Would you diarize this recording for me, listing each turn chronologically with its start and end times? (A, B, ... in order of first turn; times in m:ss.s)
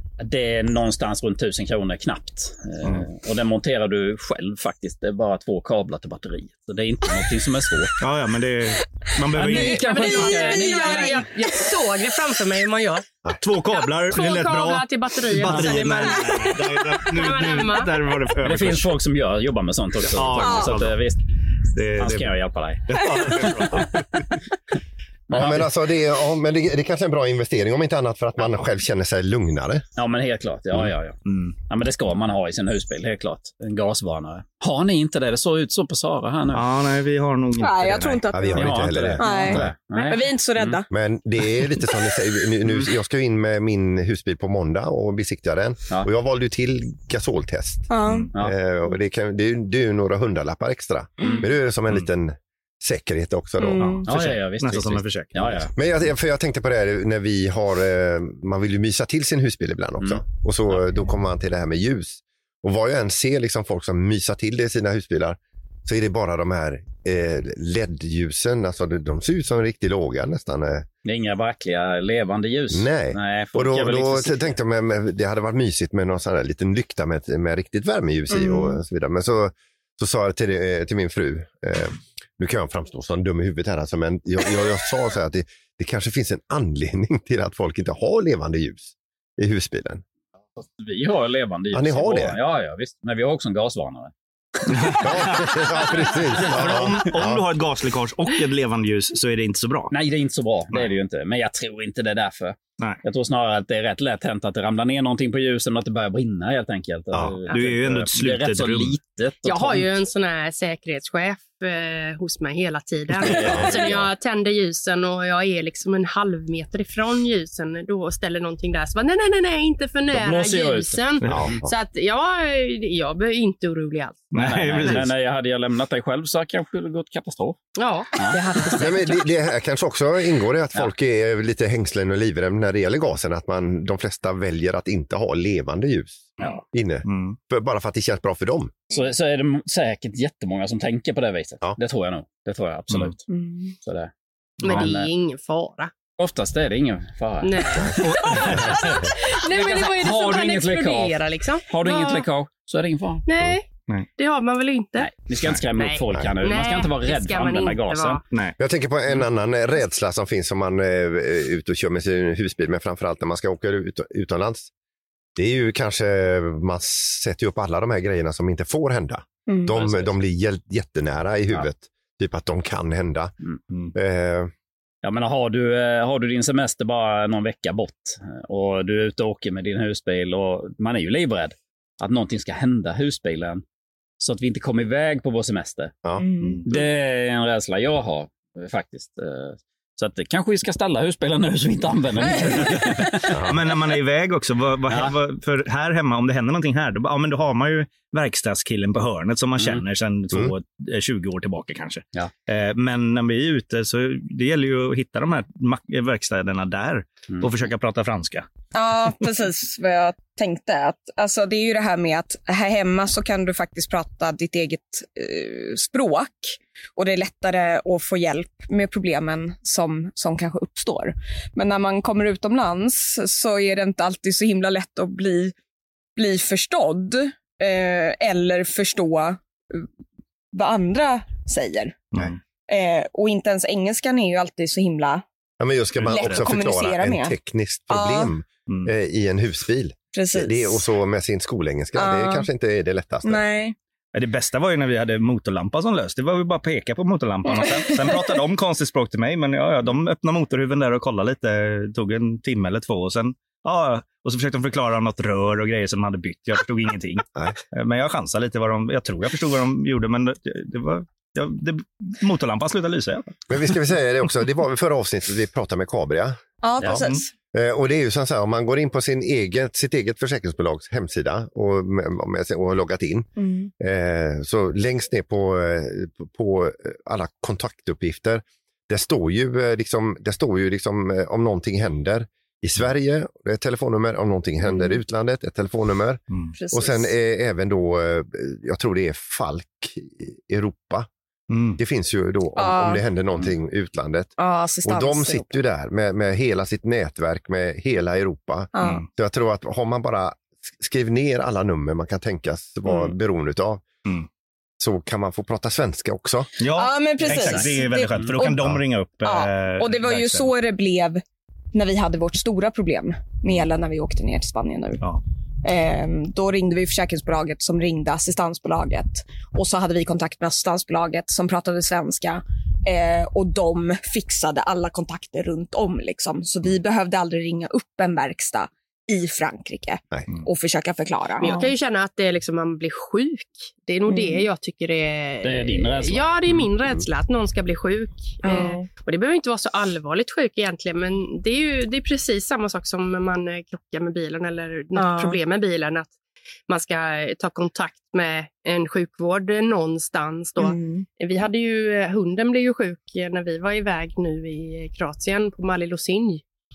0:00.2-0:07.9 A
0:08.0-0:10.0 B
0:09.4-0:11.3 A
0:09.4-0:11.8 C
0:09.9-0:13.1 D
0:13.4-0:18.9 B
0:13.7-0:17.9 D
0:15.6-0:16.6 C
0:18.4-0:21.2 A
0:20.1-0:21.0 B
0:20.4-0:20.8 C
0:21.7-0:22.3 B
0:22.0-0:23.8 A
0:22.9-0:24.1 B
0:23.2-0:23.5 C
0:25.3-0:25.6 A
0:25.3-0:29.8 E
0:25.4-0:25.7 B
0:30.0-0:31.2 A
0:31.3-0:31.6 B
0:31.7-0:36.6 A
0:36.5-0:38.7 B
0:37.6-0:40.9 C
0:38.3-0:39.7 E
0:38.6-0:40.8 A
0:40.9-0:54.0 E
0:41.5-0:42.0 C
0:47.9-0:48.3 C
0:53.6-0:54.0 C
0:54.0-0:55.7 B
0:54.0-0:55.7 A
0:55.8-1:10.9 E
1:11.0-1:14.5 A
1:12.7-1:30.0 E
1:18.3-1:18.8 C
1:30.6-1:34.1 A
1:31.7-1:32.4 E
1:34.7-1:39.9 B
1:35.0-1:37.4 E
1:39.9-1:49.9 A
1:47.1-1:47.4 E
1:47.5-1:49.0 B
1:49.4-2:04.3 D
1:53.2-1:54.0 A
1:53.4-1:54.0 E
2:00.1-2:01.0 A
2:01.2-2:01.5 B
2:01.3-2:01.7 E
2:04.3-2:05.0 B
2:04.4-2:07.6 A
2:07.8-2:09.3 D
2:08.8-2:18.8 E
2:16.4-2:17.4 B
2:18.9-2:23.2 A
2:23.3-2:23.8 C
2:23.8-2:24.1 A
2:24.6-2:24.9 B
2:24.6-2:25.9 D
2:24.7-2:25.1 A
2:26.2-2:28.8 A
2:27.4-2:32.2 D
2:28.0-2:29.0 B
2:29.6-2:33.2 A
2:33.3-2:35.1 D
2:35.0-2:38.2 A
2:35.7-2:38.3 D
2:38.6-2:44.7 E
2:45.4-2:53.3 E
2:49.5-2:49.8 C
2:54.0-2:54.5 E
2:55.0-3:03.6 A
3:04.2-3:06.0 A
3:06.2-3:06.8 C
3:06.7-3:13.3 A
3:12.3-3:12.6 C
3:13.3-3:13.6 E
3:13.4-3:28.5 B
3:28.7-3:45.6 C
3:46.2-3:49.9 C
3:50.5-3:52.0 C
3:52.1-3:52.4 B
3:52.7-3:55.2 C
3:55.6-4:03.4 E
3:56.0-3:56.6 B
3:56.1-3:57.4 C
3:57.9-3:58.3 C
4:00.1-4:00.8 C
4:02.0-4:02.5 C
4:03.2-4:03.8 C
4:04.1-4:23.4 B
4:07.5-4:08.2 C
4:23.5-4:46.2 E
4:26.6-4:27.3 C
4:26.8-4:27.2 B
4:33.4-4:33.7 C
4:44.7-4:44.9 C
4:46.6-4:47.1 C
4:46.7-4:51.1 E
4:51.5-4:51.8 B
4:51.8-5:03.8 E
4:52.6-4:53.0 C
4:54.4-4:55.5 C
4:58.7-4:59.1 C
5:04.8-5:06.5 E
5:06.6-5:10.5 B
5:06.7-5:15.0 C
5:15.6-5:31.7 C
5:31.4-5:46.1 D
5:34.1-5:34.4 C
5:35.4-5:36.3 A
5:38.4-5:38.9 C
5:45.0-5:45.4 C
5:46.7-5:56.4 D
5:50.6-5:51.1 C